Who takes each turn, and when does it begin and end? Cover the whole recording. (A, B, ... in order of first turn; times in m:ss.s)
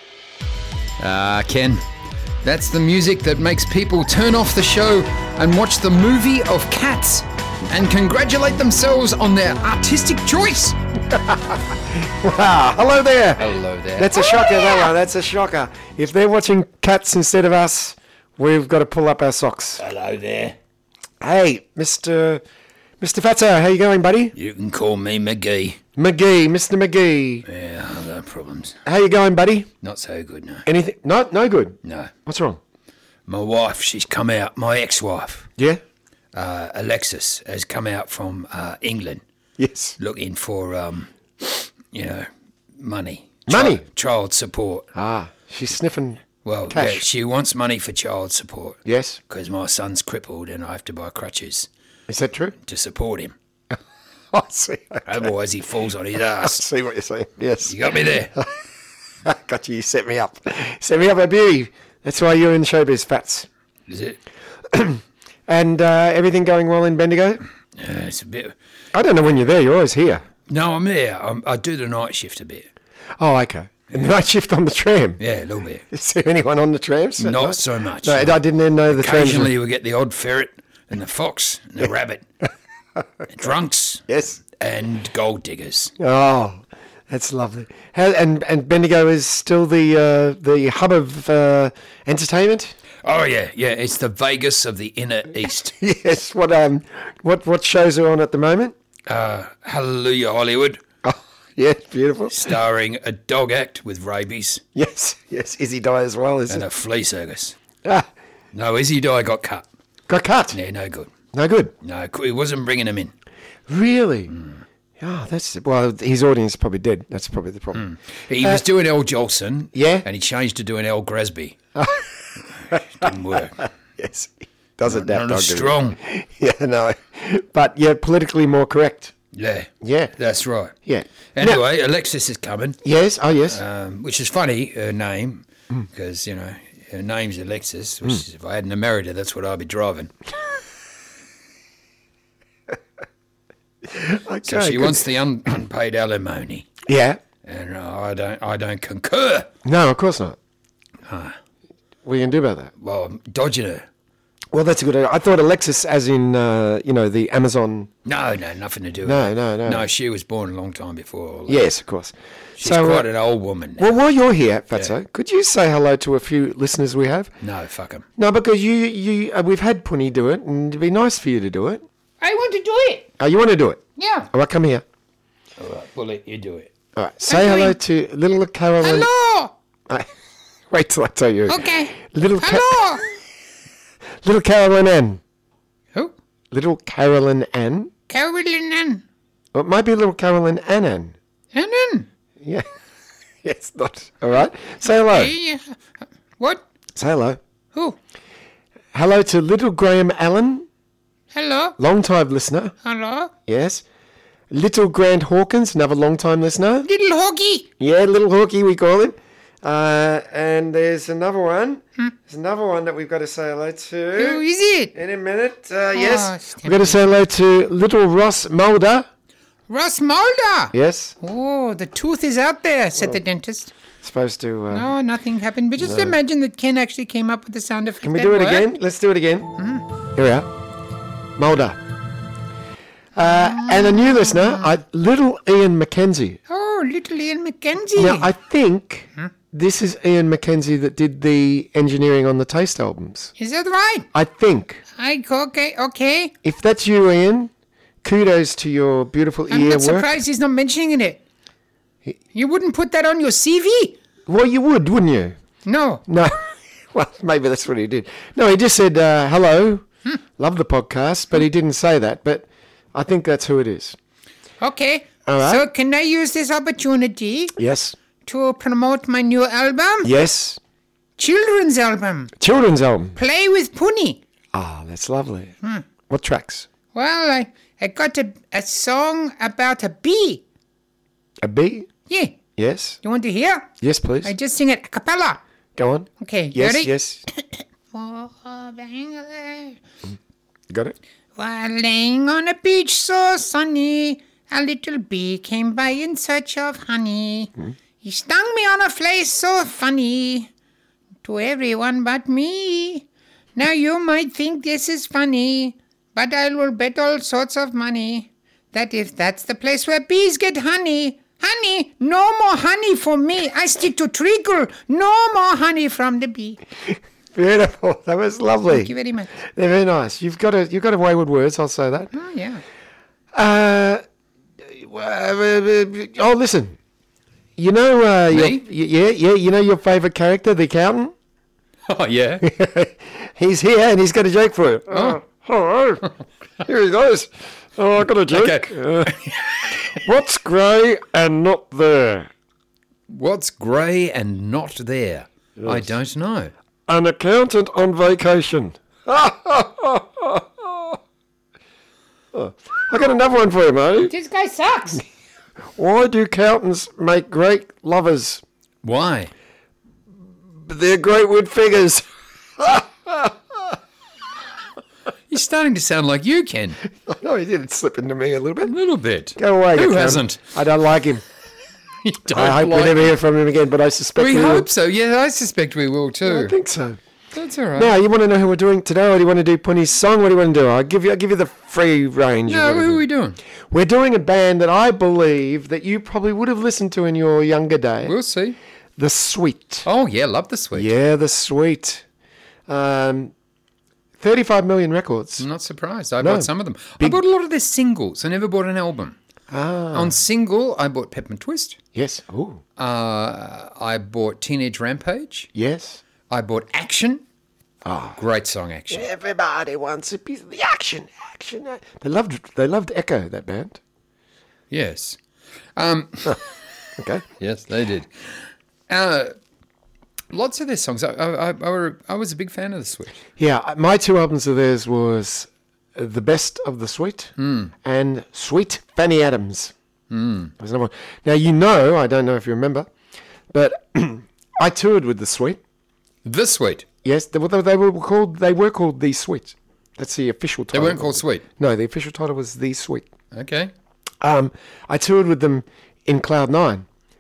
0:01.0-0:01.8 A
0:02.4-0:10.8 A
0:11.1-0:19.8 B
0:13.4-0:14.2 A
0:14.3-0:14.9 C
0:19.8-0:20.6 A
0:21.2-0:22.4 B
0:23.0-0:24.3 B
0:24.4-0:25.8 A
0:26.0-0:27.4 B
0:27.4-0:28.8 A
0:28.8-0:29.7 B
0:29.8-0:30.7 A
0:30.6-0:32.6 B
0:31.8-0:32.1 A
0:33.3-0:35.5 A
0:36.3-0:39.2 A
0:39.6-0:40.0 B
0:40.0-0:44.9 A
0:43.5-0:43.8 B
0:44.9-0:47.0 B
0:46.4-0:51.7 A
0:48.8-0:49.2 B
0:52.1-0:52.6 B
0:52.6-0:53.3 A
0:54.3-0:55.3 B
0:55.0-0:56.6 A
0:56.4-0:58.5 B
0:57.6-0:58.3 A
0:59.2-1:03.5 B
1:03.9-1:04.2 A
1:04.7-1:07.4 B
1:07.8-1:08.6 A
1:08.9-1:10.2 B
1:10.5-1:12.7 A
1:13.2-1:15.2 B
1:15.2-1:15.8 A
1:15.9-1:19.6 B
1:17.2-1:22.2 A
1:23.3-1:25.9 A
1:24.1-1:24.4 B
1:26.0-1:32.8 B
1:33.0-1:35.7 A
1:35.8-1:38.8 B
1:39.1-1:40.8 A
1:41.0-1:42.6 B
1:42.3-1:44.6 A
1:44.7-1:46.7 B
1:46.5-1:47.6 A
1:47.8-1:48.1 B
1:48.5-1:49.7 A
1:50.1-1:50.6 B
1:50.5-1:51.1 A
1:51.3-1:51.7 B
1:51.8-1:53.1 A
1:53.7-1:54.3 B
1:54.3-1:54.6 A
1:55.0-1:57.9 B
1:57.7-2:01.6 A
1:59.7-2:00.0 B
2:01.7-2:02.1 B
2:02.6-2:03.6 A
2:02.7-2:09.1 B
2:04.9-2:06.0 A
2:09.3-2:10.7 A
2:09.8-2:10.1 B
2:10.8-2:11.6 B
2:11.3-2:12.8 A
2:12.8-2:13.6 B
2:13.5-2:20.1 A
2:23.9-2:25.1 B
2:24.4-2:26.7 A
2:26.8-2:27.2 B
2:27.4-2:29.5 A
2:29.6-2:30.4 B
2:31.1-2:31.4 A
2:32.0-2:32.7 B
2:32.8-2:33.9 A
2:34.5-2:37.9 B
2:38.0-2:41.6 A
2:39.0-2:39.9 B
2:41.5-2:43.1 B
2:42.6-2:43.9 A
2:43.8-2:47.3 B
2:47.4-2:48.1 A
2:48.2-2:51.8 B
2:52.2-2:53.1 C
2:53.2-2:54.8 B
2:54.0-2:54.3 C
2:55.6-2:56.7 A
2:57.0-2:59.1 B
2:57.3-2:57.8 C
2:58.8-2:59.5 C
3:00.7-3:03.1 B
3:01.5-3:03.0 C
3:04.2-3:05.2 B
3:06.5-3:07.9 B
3:08.1-3:09.0 C
3:09.5-3:11.2 B
3:11.5-3:12.1 C
3:13.4-3:15.4 B
3:15.0-3:15.8 C
3:17.0-3:17.4 B
3:18.9-3:20.7 B
3:21.3-3:21.8 C
3:21.8-3:22.7 B
3:22.8-3:23.3 C
3:23.5-3:23.8 B
3:24.5-3:26.9 B
3:26.9-3:27.7 C
3:27.8-3:34.4 B
3:34.2-3:34.9 C
3:34.9-3:39.1 B
3:36.0-3:36.9 C
3:39.7-3:43.7 C
3:40.7-3:41.2 B
3:44.0-3:44.9 B
3:44.7-3:48.7 C
3:45.8-3:46.2 B
3:48.0-3:49.5 B
3:49.6-3:49.8 C
3:50.2-3:50.5 B
3:51.4-3:51.8 B
3:53.2-3:56.4 B
3:53.3-3:54.4 C
3:56.5-3:58.3 C
3:58.0-4:03.3 B
4:03.4-4:04.1 C
4:04.1-4:04.8 B
4:05.0-4:06.3 C
4:06.4-4:07.5 B
4:08.0-4:10.1 B
4:09.5-4:11.2 C
4:12.3-4:14.0 C
4:14.3-4:15.4 B
4:15.7-4:16.0 C
4:16.1-4:19.9 B
4:20.4-4:24.0 B
4:24.6-4:27.6 C
4:25.2-4:25.7 B
4:27.6-4:28.0 B
4:28.2-4:30.1 C
4:30.0-4:30.6 B
4:31.2-4:32.3 C
4:32.4-4:33.2 B
4:33.2-4:34.2 C
4:34.5-4:35.5 B
4:36.1-4:36.7 B
4:36.9-4:40.4 C
4:41.4-4:41.9 B
4:42.1-4:42.4 C
4:42.6-4:43.0 B
4:43.0-4:43.7 C
4:43.8-4:44.3 B
4:44.2-4:45.4 C
4:45.8-4:47.2 B
4:46.2-4:49.8 C
4:50.7-4:50.9 B
4:51.4-4:57.5 C
4:58.0-5:00.5 C
5:01.2-5:16.6 C
5:16.9-5:22.1 B
5:18.7-5:19.3 C
5:22.1-5:22.6 C
5:23.3-5:24.0 B
5:24.6-5:26.8 B
5:27.6-5:31.1 B
5:28.3-5:28.6 A
5:31.9-5:32.4 A
5:32.4-5:36.1 B
5:34.9-5:35.2 A
5:36.6-5:39.1 B
5:38.3-5:40.0 A
5:39.9-5:42.3 B
5:43.1-5:46.5 A
5:45.6-5:45.9 B
5:46.9-5:51.0 B
5:52.3-5:54.1 B
5:54.0-5:55.0 C
5:55.8-5:58.4 B
5:58.8-5:59.3 A
6:00.6-6:02.0 B
6:02.6-6:03.8 B
6:05.3-6:06.8 A
6:07.0-6:08.7 B
6:08.6-6:10.4 A
6:09.4-6:11.2 B
6:12.0-6:13.2 A
6:12.3-6:14.7 B
6:14.2-6:16.6 A
6:16.2-6:17.0 B
6:17.3-6:17.9 A
6:17.8-6:23.0 B
6:22.5-6:23.4 A
6:23.7-6:28.1 B
6:28.1-6:28.6 A
6:29.0-6:29.9 B
6:29.8-6:30.9 A
6:30.7-6:32.0 B
6:32.7-6:33.3 B
6:34.2-6:35.4 B
6:35.4-6:39.2 A
6:36.2-6:37.2 B
6:39.5-6:40.2 B
6:39.9-6:41.8 A
6:41.9-6:42.6 B
6:42.8-6:45.5 A
6:45.6-6:46.0 B
6:46.3-6:47.2 A
6:47.8-6:48.2 B
6:48.2-6:49.1 A
6:48.9-6:53.8 B
6:54.7-6:55.2 A
6:55.8-6:56.5 A
6:57.0-6:57.2 B
6:57.4-6:59.4 A
7:00.3-7:03.2 A
7:03.4-7:09.7 B
7:07.4-7:07.7 A
7:10.1-7:10.5 A
7:10.6-7:12.9 B
7:13.5-7:15.6 B
7:16.2-7:16.9 A
7:17.0-7:23.1 B
7:20.7-7:21.4 A
7:23.3-7:23.7 A
7:24.2-7:26.9 B